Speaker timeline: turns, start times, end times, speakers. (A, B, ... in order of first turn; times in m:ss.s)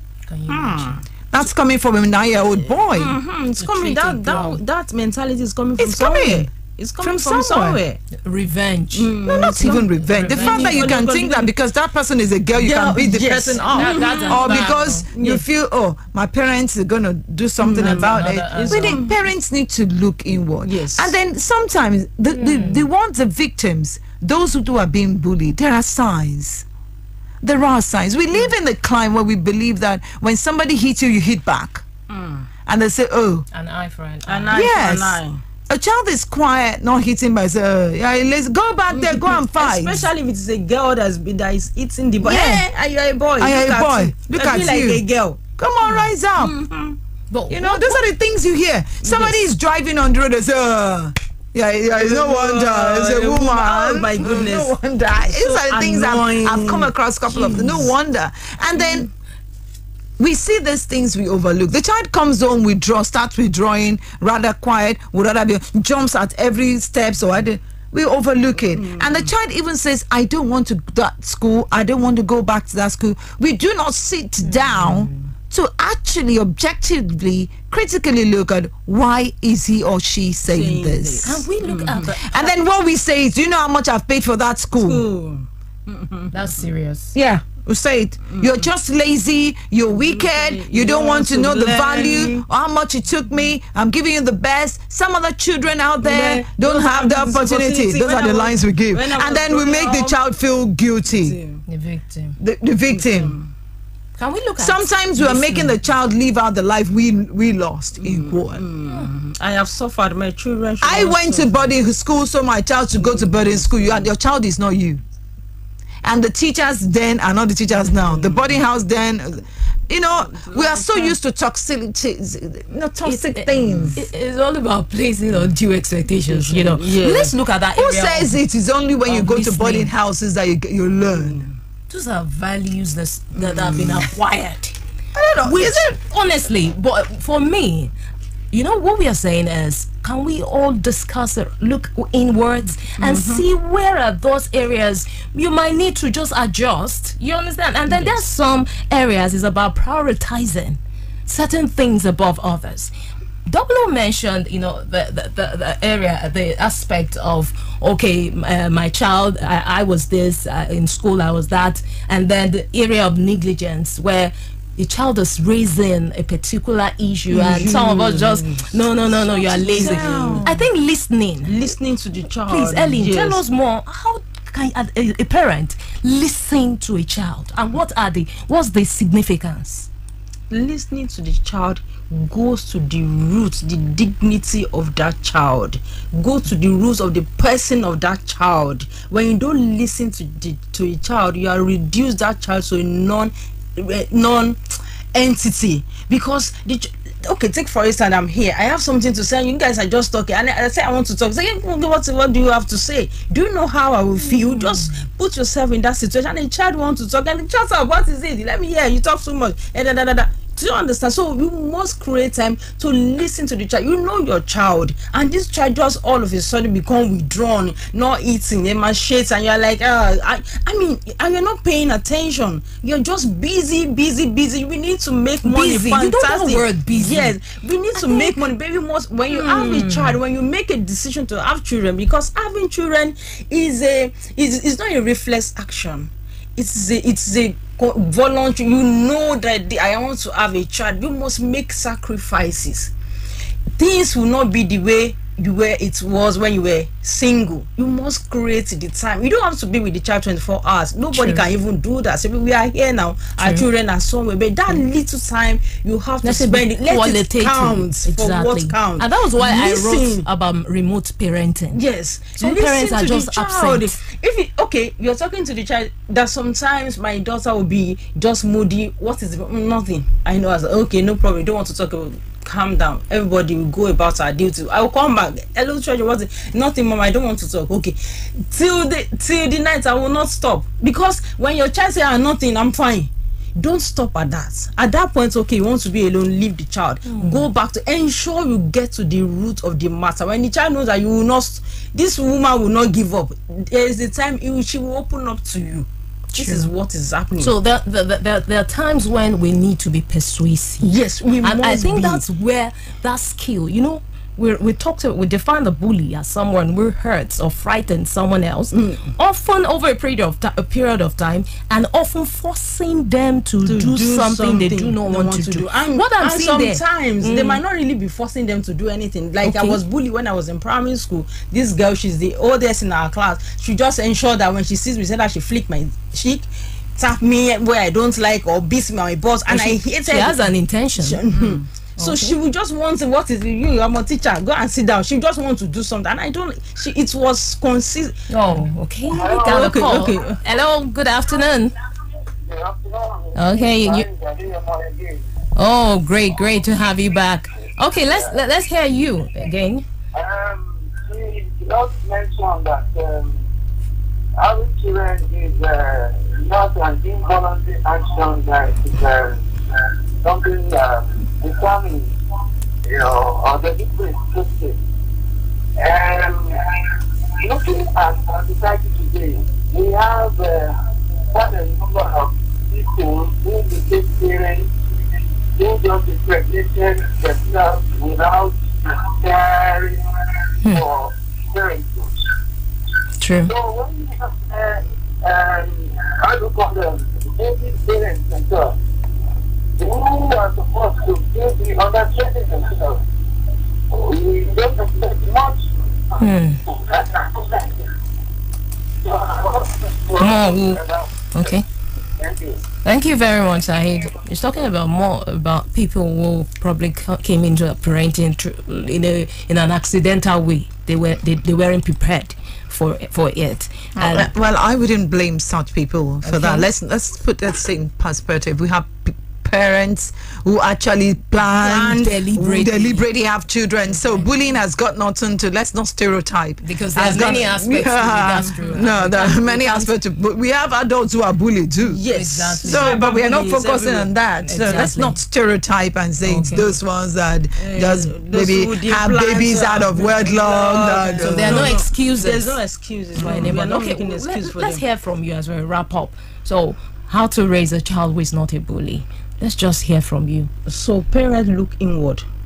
0:00.3-0:01.0 A
0:00.5-0:01.0 B
0:01.3-0:03.2 C
0:02.6-0:08.0 B
0:03.6-0:04.6 A
0:05.8-0:06.5 C
0:07.0-0:07.8 C
0:08.2-0:10.9 A
0:08.9-0:11.5 B
0:09.2-0:26.6 C
0:12.6-0:15.4 B
0:13.5-0:15.0 A
0:17.6-0:19.2 B
0:17.8-0:19.0 A
0:20.6-0:21.1 B
0:22.3-0:22.8 A
0:27.4-0:31.8 C
0:32.1-0:32.5 B
0:32.6-0:33.4 C
0:33.5-0:34.6 A
0:34.2-0:35.4 B
0:34.5-0:40.1 C
0:38.9-0:45.4 B
0:42.2-0:42.6 C
0:43.4-0:45.0 C
0:45.6-0:46.6 C
0:46.4-0:47.0 B
0:47.3-0:48.0 A
0:47.5-0:59.1 C
0:49.0-0:49.4 B
0:51.9-0:57.9 B
1:00.2-1:21.4 C
1:08.6-1:09.3 B
1:14.4-1:15.3 A
1:20.5-1:22.2 B
1:21.2-1:22.5 A
1:22.1-1:25.0 C
1:24.8-1:26.6 B
1:26.3-1:27.1 A
1:27.1-1:41.4 C
1:28.3-1:28.7 B
1:29.9-1:32.4 B
1:36.0-1:40.2 B
1:41.1-1:41.6 B
1:41.7-1:42.4 A
1:42.4-1:43.4 C
1:42.9-1:43.5 B
1:44.2-1:45.8 A
1:44.6-1:48.6 C
1:48.0-1:51.7 B
1:50.8-1:55.0 C
1:52.9-1:54.1 B
1:56.0-2:04.0 C
1:57.7-1:58.6 B
2:00.2-2:01.1 B
2:03.0-2:08.4 A
2:03.5-2:04.0 B
2:06.3-2:07.4 B
2:07.8-2:11.4 C
2:09.0-2:09.9 A
2:11.1-2:11.6 B
2:11.9-2:14.8 A
2:13.4-2:14.1 B
2:15.1-2:15.9 C
2:15.4-2:17.9 A
2:18.5-2:32.9 A
2:23.0-2:23.4 B
2:27.9-2:28.2 B
2:33.5-2:51.6 A
2:47.3-2:50.5 B
2:49.6-2:50.6 C
2:51.4-2:53.4 B
2:52.4-2:59.9 A
3:00.5-3:14.6 B
3:15.1-4:02.9 B
3:24.3-3:24.9 A
3:45.4-3:47.4 A
3:47.9-3:48.5 A
3:49.3-3:50.2 A
4:03.8-4:20.2 B
4:11.1-4:11.4 A
4:13.4-4:13.7 A
4:16.2-4:21.8 A
4:21.7-4:57.5 B
4:22.4-4:24.0 A
4:47.1-4:47.4 A
4:56.4-4:56.7 A
4:57.4-5:00.9 A
5:00.8-5:02.2 B
5:01.4-5:17.6 A
5:08.7-5:09.1 B
5:13.6-5:38.2 B
5:19.4-5:19.8 A
5:29.5-5:31.2 A
5:32.0-5:32.4 A
5:38.3-5:41.7 A
5:39.1-5:40.0 D
5:39.3-5:40.4 B
5:42.4-5:45.3 D
5:43.3-5:44.1 A
5:45.6-5:49.8 A
5:48.0-5:48.3 D
5:50.1-5:53.4 D
5:54.4-6:02.1 D
6:02.8-6:04.8 D
6:05.8-6:06.6 D
6:07.4-6:10.8 D
6:11.3-6:14.7 D
6:15.6-6:20.0 D
6:20.7-6:22.2 D
6:23.2-6:23.5 A
6:23.4-6:28.8 D
6:29.8-6:33.0 D
6:33.9-6:37.9 D
6:36.2-6:36.6 A
6:39.0-6:41.5 D
6:40.2-6:40.8 A
6:41.3-6:41.6 A
6:42.2-6:42.6 D
6:42.8-6:54.3 A
6:54.0-7:12.0 C
6:56.2-6:56.7 A
7:01.5-7:02.1 B
7:01.7-7:03.0 A
7:03.9-7:04.3 A
7:06.6-7:09.9 A
7:11.8-7:14.1 B
7:12.1-7:13.0 A
7:12.6-7:21.7 C
7:14.4-7:15.2 A
7:16.2-7:16.7 A
7:16.4-7:16.7 B
7:17.6-7:24.8 B
7:21.2-7:22.6 A
7:23.2-7:30.5 A
7:23.2-7:23.5 C
7:30.6-7:32.2 B